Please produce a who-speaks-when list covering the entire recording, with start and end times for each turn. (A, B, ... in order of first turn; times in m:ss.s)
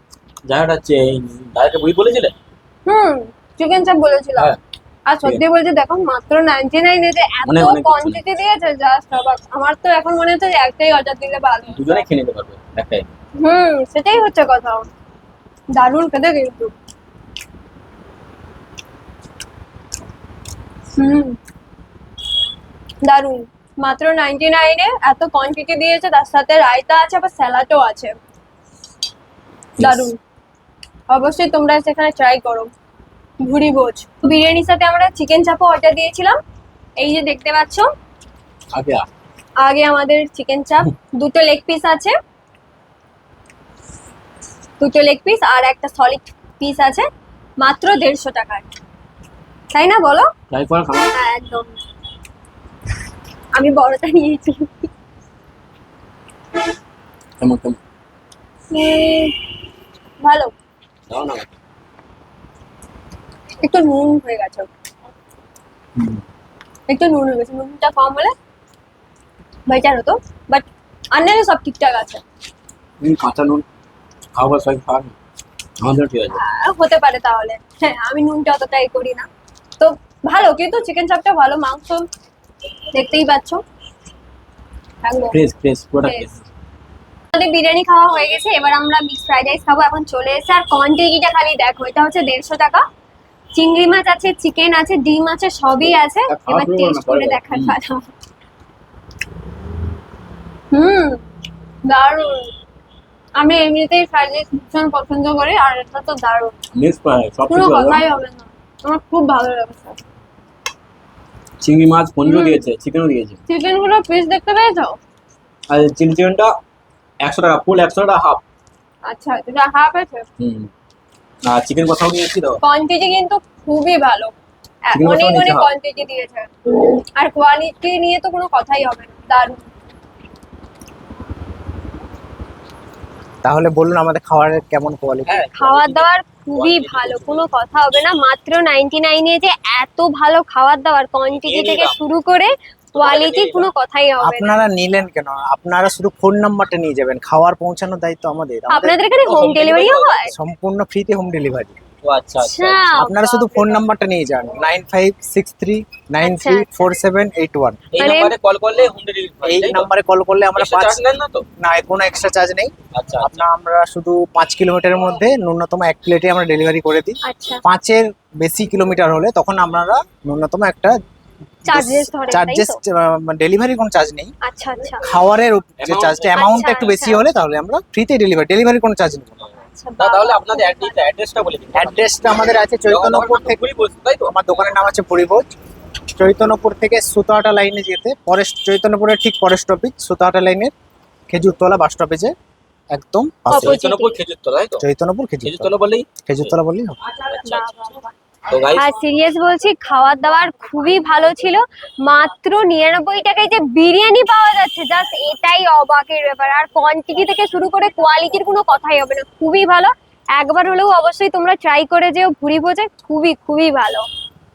0:00.5-0:02.3 A
0:02.8-0:04.5 B
0:05.1-0:11.8 B
0:07.4-0:08.2 A
0:11.7-0:13.1 A
0:13.4-0:14.9 B
0:15.8-0:16.7 B
0:21.0-0:21.4 B
0:23.0-0:28.2 B
0:29.8-0:30.1 A
0:29.8-0:30.2 B
0:31.1-0:32.7 B
0:33.4-0:36.4 B
0:37.0-0:37.9 B
0:38.7-0:39.0 A
0:39.6-0:42.2 B
0:44.8-0:47.1 B
0:47.6-0:48.7 B
0:49.7-0:50.3 B
0:50.5-0:51.1 A
0:51.1-0:51.8 B
0:53.5-0:54.9 B
0:57.4-0:57.8 A
0:58.7-0:59.4 B
1:00.2-1:00.5 B
1:01.1-1:01.5 A
1:03.6-1:04.7 B
1:06.0-1:06.2 A
1:06.9-1:08.3 B
1:09.7-1:12.2 B
1:13.0-1:13.6 A
1:14.3-1:15.1 A
1:15.8-1:16.4 A
1:16.3-1:19.3 B
1:19.8-1:22.0 B
1:22.9-1:23.6 B
1:25.0-1:25.4 B
1:25.3-1:26.4 A
1:26.0-1:26.3 B
1:27.3-1:32.8 B
1:33.5-1:38.1 B
1:36.3-1:37.8 A
1:40.7-1:41.2 B
1:41.8-1:42.5 B
1:43.4-1:46.6 B
1:46.7-1:48.0 A
1:47.5-1:50.0 B
1:51.6-1:53.4 A
1:52.2-1:52.6 B
1:53.5-1:55.0 B
1:55.7-1:56.6 A
1:57.2-1:58.4 A
1:59.0-2:00.2 B
2:00.4-2:00.7 A
2:01.5-2:02.6 A
2:02.6-2:04.3 B
2:04.9-2:06.5 B
2:04.9-2:05.7 A
2:07.2-2:09.7 B
2:13.4-2:15.4 C
2:15.2-2:17.5 A
2:15.5-2:24.6 B
2:21.3-2:22.0 A
2:22.9-2:23.7 A
2:24.2-2:29.0 C
2:28.7-2:30.3 B
2:29.2-2:30.3 A
2:30.3-2:31.8 C
2:32.0-2:32.9 A
2:32.4-2:33.8 B
2:33.0-2:37.8 C
2:36.2-2:36.7 B
2:37.9-2:39.9 A
2:38.0-2:38.3 B
2:39.4-2:41.0 C
2:40.5-2:41.4 A
2:41.6-2:51.0 C
2:42.9-2:43.4 A
2:47.2-2:47.6 B
2:51.6-2:54.3 C
2:51.7-2:52.8 B
2:54.4-2:55.1 B
2:55.0-2:59.4 C
2:55.8-2:57.2 A
2:56.3-2:57.2 B
2:59.5-3:04.5 A
2:59.7-3:01.0 B
3:01.7-3:03.7 C
3:04.2-3:05.5 C
3:06.1-3:10.7 C
3:11.3-3:12.3 C
3:12.9-3:13.8 C
3:13.5-3:14.2 B
3:13.5-3:14.8 A
3:14.8-3:15.7 C
3:15.4-3:16.6 A
3:16.2-3:17.0 C
3:17.2-3:17.8 A
3:17.4-3:18.1 B
3:18.5-3:19.0 A
3:18.7-3:34.0 B